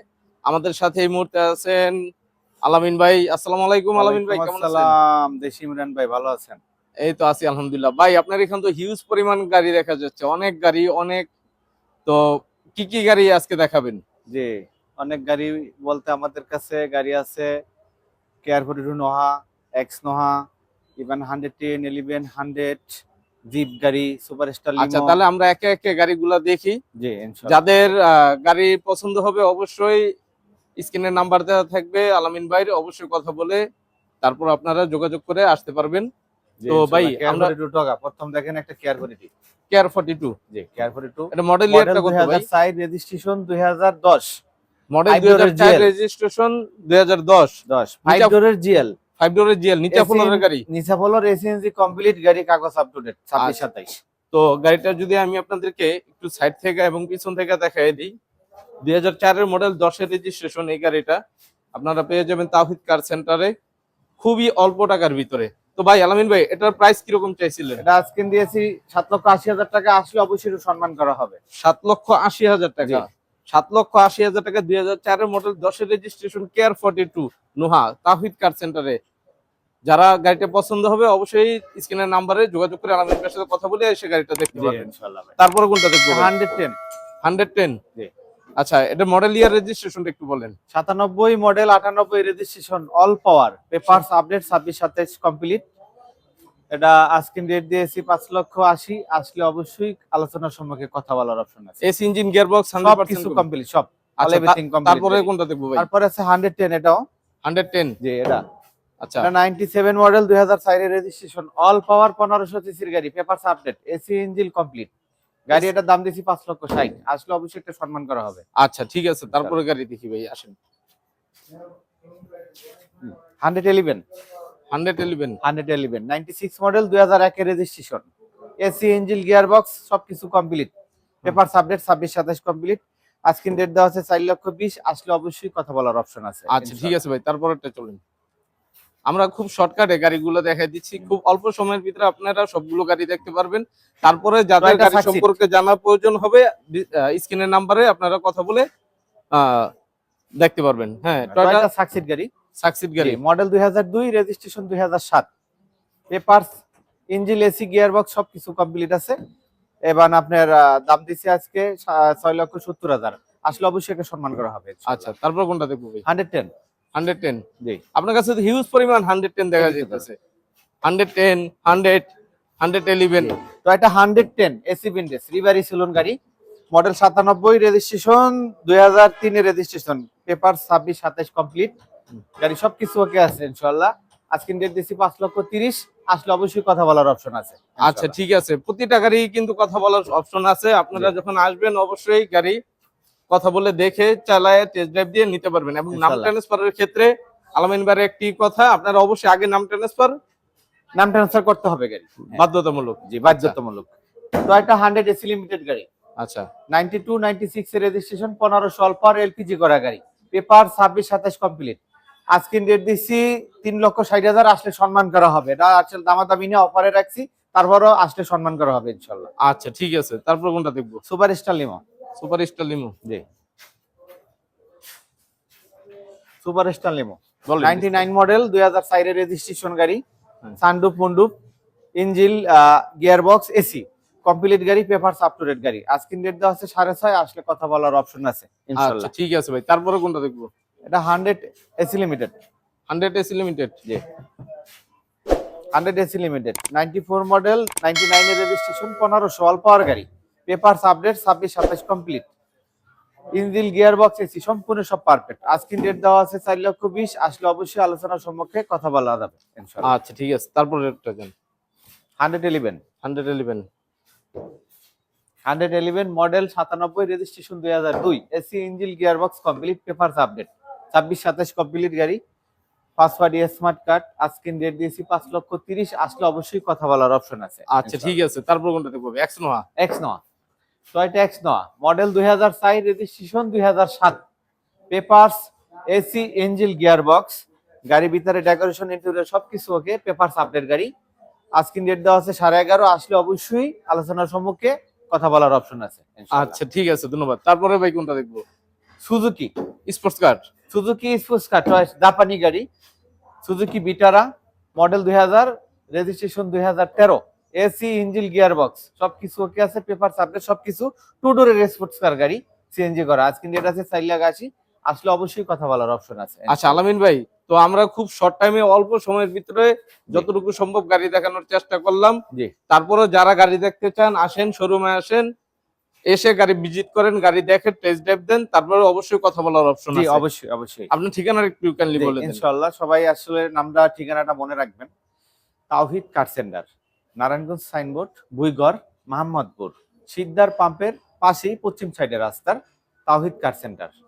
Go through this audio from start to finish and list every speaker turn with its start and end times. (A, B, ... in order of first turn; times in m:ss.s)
0:00.5-0:02.0 A
0:02.6-0:04.9 A
0:04.0-0:06.6 B
0:07.0-0:11.3 A
0:12.0-0:14.0 A
0:14.3-0:17.5 B
0:18.4-0:20.4 B
0:21.0-0:25.2 B
0:24.8-0:26.8 A
0:27.0-0:27.6 B
0:27.5-0:30.1 A
0:30.8-0:33.6 A
0:34.2-0:36.1 A
0:36.6-0:39.3 B
0:36.7-0:37.5 A
0:39.7-0:40.3 A
0:40.5-0:44.3 B
0:41.3-0:42.4 A
0:44.9-0:48.3 A
0:45.1-0:45.9 B
0:47.7-0:48.9 B
0:49.2-0:50.6 A
0:49.9-0:54.0 B
0:54.3-0:58.1 A
0:58.8-1:01.2 A
1:01.7-1:03.5 A
1:04.2-1:07.8 A
1:07.8-1:11.4 B
1:11.6-1:19.0 A
1:19.9-1:24.9 A
1:24.6-1:25.3 B
1:25.4-1:26.3 A
1:26.1-1:26.8 B
1:27.2-1:27.8 A
1:28.6-1:30.6 A
1:30.7-1:35.6 B
1:36.7-1:41.8 B
1:41.8-1:43.4 A
1:42.8-1:47.0 B
1:44.2-1:45.8 A
1:47.4-1:48.0 A
1:48.0-1:48.4 B
1:49.0-1:49.3 A
1:49.2-1:54.9 B
1:55.5-1:58.4 B
1:58.6-2:00.6 A
1:59.3-1:59.6 B
2:03.0-2:04.0 B
2:04.7-2:05.4 A
2:05.4-2:08.1 B
2:08.6-2:10.7 B
2:11.2-2:17.0 B
2:16.5-2:18.0 A
2:19.1-2:28.6 A
2:24.6-2:25.3 B
2:29.3-2:29.7 A
2:30.4-2:31.6 A
2:31.3-2:32.3 B
2:32.6-2:33.2 A
2:33.0-2:35.3 B
2:36.1-2:36.5 B
2:37.1-2:39.2 B
2:39.9-2:45.1 B
2:44.9-2:46.0 A
2:46.0-2:46.5 B
2:46.9-2:47.4 A
2:47.9-2:50.2 A
2:49.6-2:50.0 B
2:50.8-2:53.4 A
2:53.6-2:56.2 B
2:56.7-3:01.7 B
3:02.4-3:08.1 B
3:07.8-3:12.6 A
3:13.3-3:20.1 A
3:15.9-3:16.3 B
3:21.0-3:22.4 B
3:22.3-3:23.6 A
3:23.1-3:23.9 B
3:24.4-3:25.8 B
3:26.2-3:26.5 A
3:26.7-3:31.8 B
3:32.3-3:39.3 B
3:39.4-3:41.0 A
3:41.1-3:41.8 B
3:42.2-3:42.9 A
3:46.4-3:50.0 B
3:47.5-3:47.9 A
3:50.6-3:51.3 B
3:52.0-3:59.1 B
3:58.8-4:00.5 A
4:00.9-4:02.3 B
4:02.9-4:03.8 A
4:05.7-4:12.3 B
4:13.4-4:19.9 B
4:19.8-4:21.3 A
4:22.2-4:22.8 B
4:23.0-4:23.7 A
4:25.4-4:32.2 B
4:33.0-4:38.2 B
4:37.7-4:39.6 A
4:39.8-4:40.2 B
4:40.9-4:44.2 B
4:44.9-4:50.9 B
4:51.6-4:56.6 B
4:56.3-4:58.4 A
4:59.0-4:59.5 B
4:59.9-5:00.4 A
5:00.7-5:02.6 B
5:03.4-5:16.8 B
5:16.5-5:25.3 A
5:26.1-5:30.2 A
5:29.9-5:30.9 B
5:30.9-5:32.4 A
5:31.9-5:34.9 B
5:35.7-5:36.7 B
5:37.2-5:43.9 B